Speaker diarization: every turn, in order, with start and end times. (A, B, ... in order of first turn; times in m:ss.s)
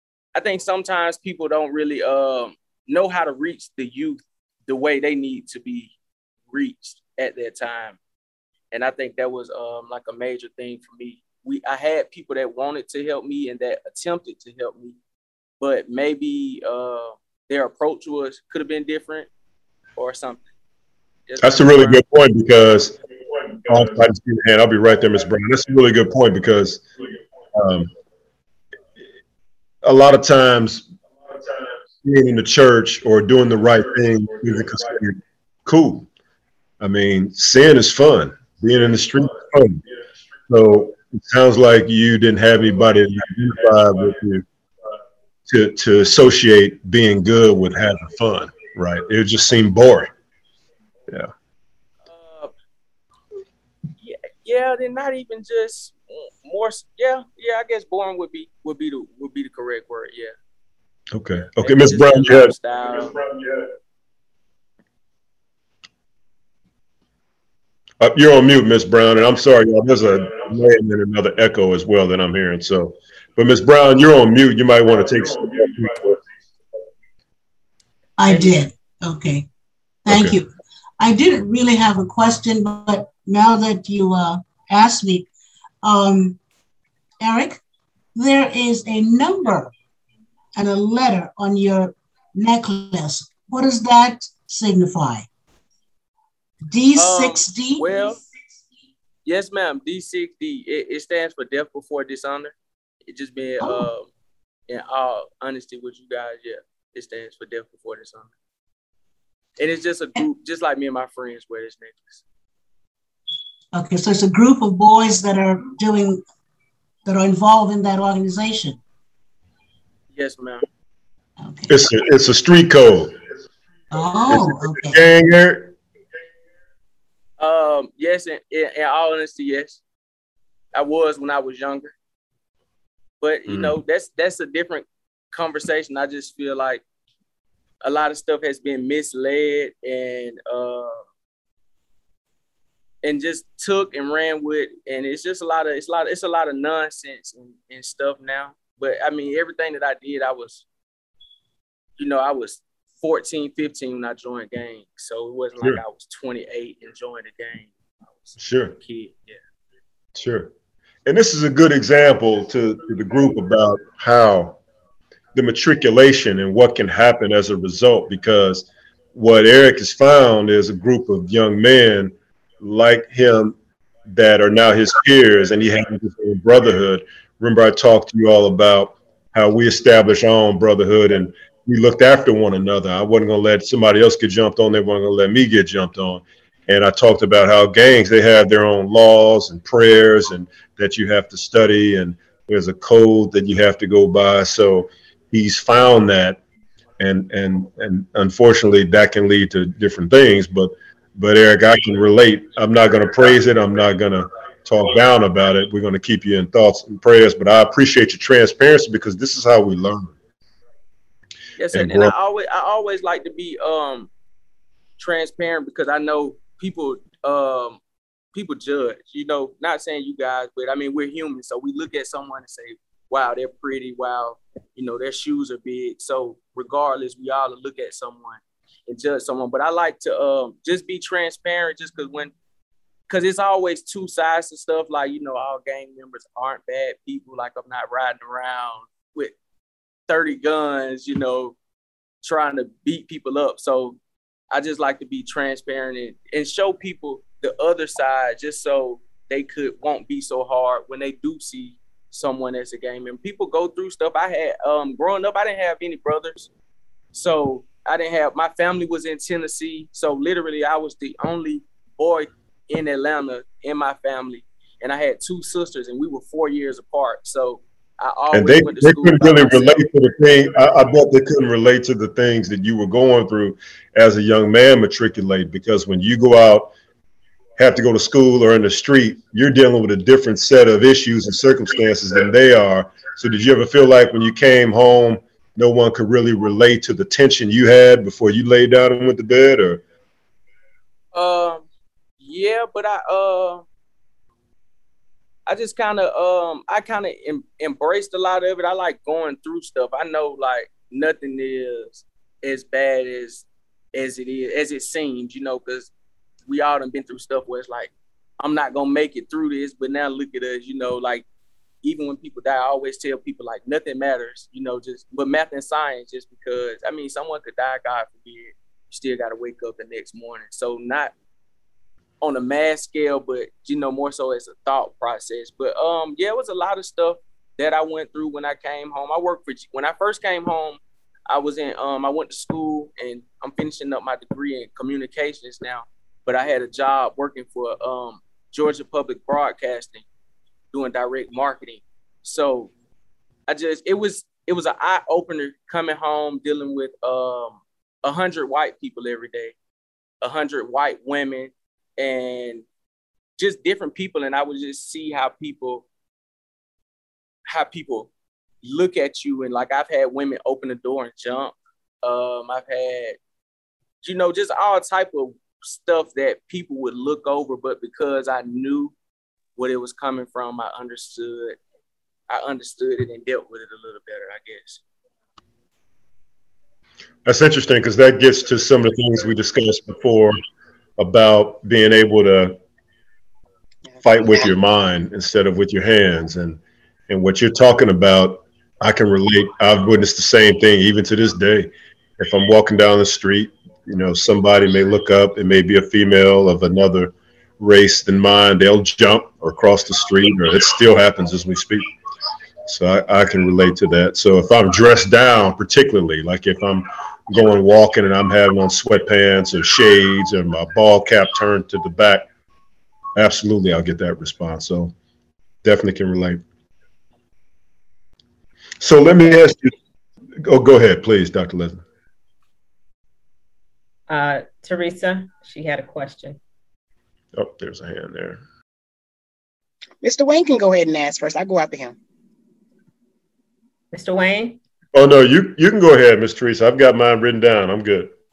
0:00.3-0:05.9 A
0:06.5-0:08.0 A
0:08.7-0:15.0 A
0:15.6-0:19.3 A
0:20.0-0:20.4 A
0:21.3-0:22.0 A
0:21.4-0:23.0 B
0:23.6-0:26.8 B
0:27.5-0:27.9 B
0:29.8-0:30.9 B
0:32.0-0:36.1 B
0:36.8-0:39.8 B
0:40.5-0:44.4 B
0:45.5-0:50.1 B
0:52.0-0:52.5 A
0:54.0-1:00.3 A
1:01.1-1:02.5 B
1:01.6-1:03.2 A
1:03.3-1:03.6 B
1:08.0-1:16.2 B
1:18.2-1:19.4 C
1:20.0-1:25.3 C
1:20.1-1:20.4 B
1:25.8-1:26.4 C
1:27.2-1:27.6 C
1:28.1-1:29.7 C
1:30.5-1:35.2 C
1:36.7-1:38.2 C
1:36.9-1:38.2 A
1:39.2-1:42.5 A
1:43.0-1:44.1 A
1:43.6-1:43.9 C
1:44.7-1:48.3 A
1:49.6-1:52.2 A
1:53.7-1:56.2 C
1:57.0-1:58.8 C
2:00.1-2:00.6 A
2:01.4-2:01.8 C
2:01.7-2:03.1 B
2:03.9-2:05.0 C
2:04.3-2:05.7 B
2:07.4-2:09.8 A
2:10.7-2:11.9 A
2:13.2-2:16.8 A
2:13.5-2:13.8 B
2:17.8-2:21.0 A
2:23.0-2:30.6 A
2:32.0-2:39.4 A
2:38.4-2:38.8 B
2:40.1-2:40.5 B
2:41.0-2:44.6 B
2:45.3-2:53.6 B
2:54.1-3:16.4 B
3:17.0-3:30.1 B
3:31.6-3:34.1 A
3:31.7-3:32.1 B
3:35.0-3:37.8 A
3:38.3-3:52.3 A
3:53.1-3:59.3 A
4:00.1-4:01.6 A
4:02.2-4:04.0 A
4:04.5-4:16.5 A
4:17.1-4:29.8 A
4:28.3-4:36.7 B
4:37.6-4:49.8 B
4:51.1-4:51.6 A
4:52.2-4:53.6 A
4:55.5-5:05.9 A
5:06.5-5:11.2 A
5:11.8-5:21.1 A
5:22.2-5:40.0 A
5:40.7-5:42.7 A
5:43.5-5:49.5 A
5:50.2-5:52.6 A
5:53.4-5:55.8 A
5:57.5-5:58.1 A
5:58.6-6:03.2 A
6:04.0-6:08.9 A
6:09.6-6:11.6 A
6:12.3-6:14.8 A
6:17.2-6:20.4 B
6:21.0-6:22.6 B
6:24.0-6:24.5 D
6:24.0-6:41.9 B
6:42.6-6:52.3 B
6:53.2-6:54.9 B
6:55.6-6:56.4 B
6:58.8-6:59.7 B
7:00.4-7:01.8 B
7:04.1-7:06.4 E
7:07.3-7:08.4 B
7:10.0-7:11.9 D
7:13.9-7:14.6 E
7:14.9-7:18.1 B